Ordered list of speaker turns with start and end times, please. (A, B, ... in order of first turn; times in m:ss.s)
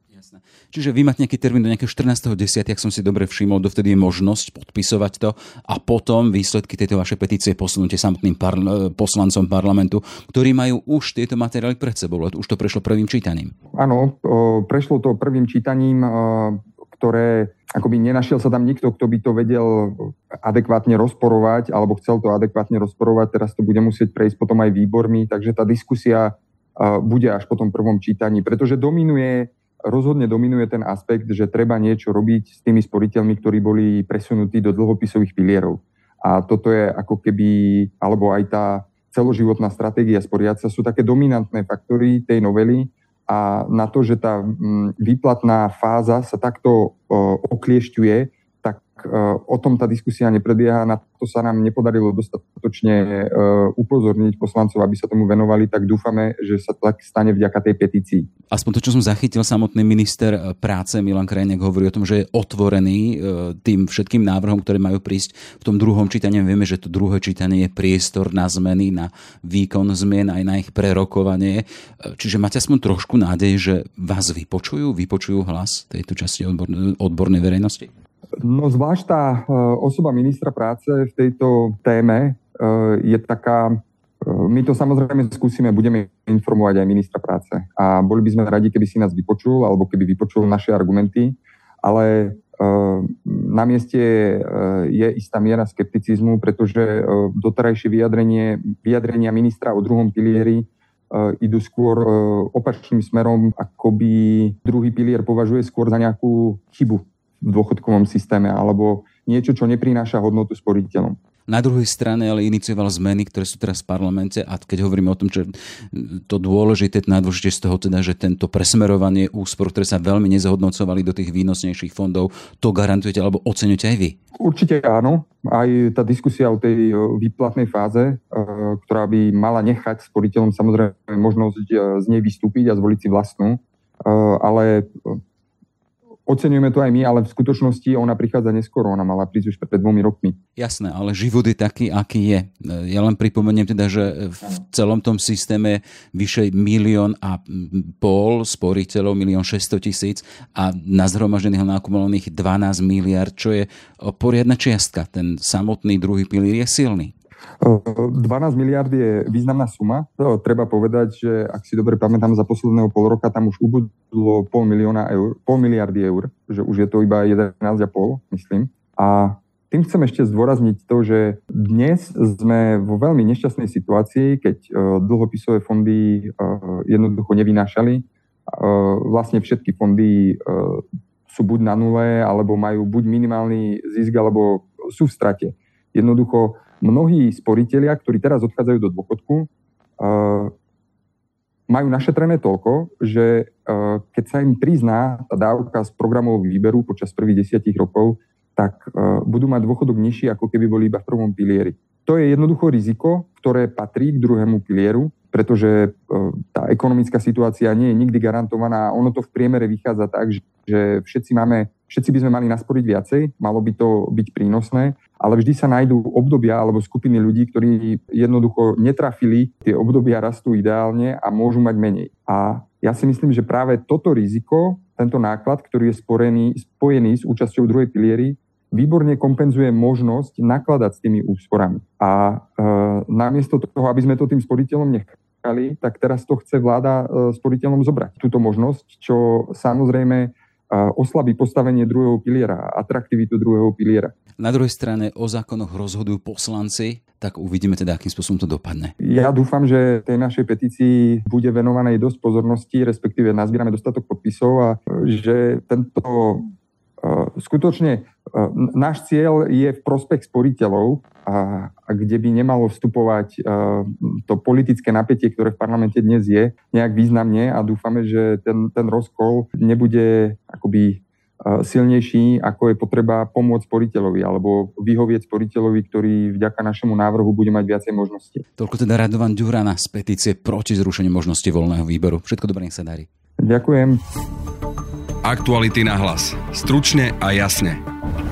0:00.1-0:13.5 A
0:13.7-0:58.3 B
0:58.5-1:17.9 A
1:18.4-1:51.2 B
1:51.5-2:04.2 A
2:04.4-2:15.2 B
2:16.3-2:20.4 B
2:20.6-2:37.1 A
2:37.6-3:10.5 B
3:11.7-4:04.1 B
4:04.4-4:08.9 A
4:09.0-4:16.5 B
4:17.0-4:38.4 B
4:38.6-4:43.1 A
4:43.4-4:44.0 B
4:45.2-4:47.8 C